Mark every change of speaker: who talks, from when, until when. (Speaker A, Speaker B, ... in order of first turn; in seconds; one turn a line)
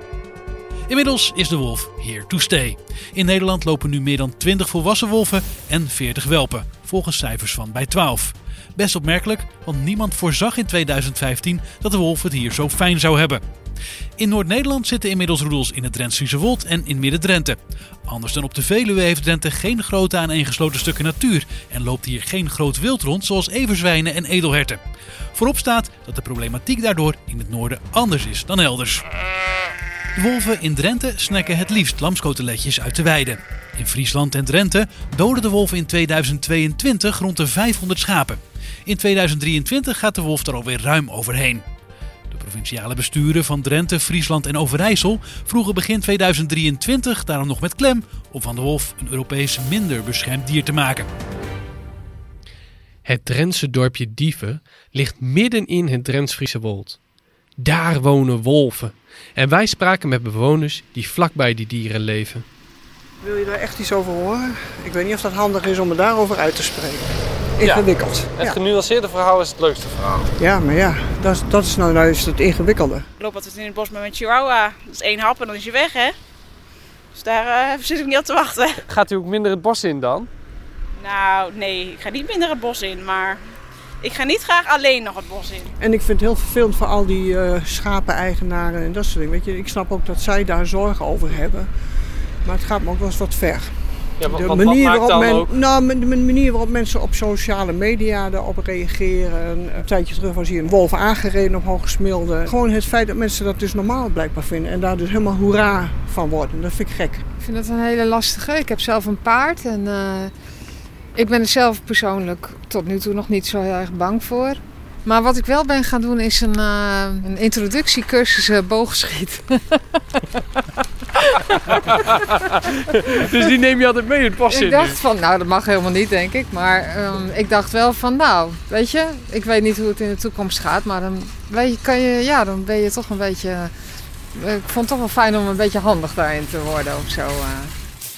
Speaker A: 0.9-13.4
Speaker A: 14.2-24.8
Speaker A: 25.3-29.0
Speaker A: 30.1-41.6
Speaker A: 42.3-51.1
Speaker B: 53.0-57.0
Speaker B: 57.6-62.5
Speaker C: 63.2-68.6
Speaker B: 67.6-70.3
Speaker C: 70.4-73.0
Speaker D: 73.2-76.1
Speaker D: 77.1-78.8
Speaker B: 78.9-80.3
Speaker D: 81.0-83.4
Speaker D: 84.0-85.7
Speaker C: 85.8-91.7
Speaker C: 92.4-107.2
Speaker B: 94.2-95.5
Speaker E: 107.4-110.3
Speaker E: 111.1-120.4
Speaker B: 121.7-125.0
Speaker E: 124.5-133.7
Speaker E: 134.3-137.7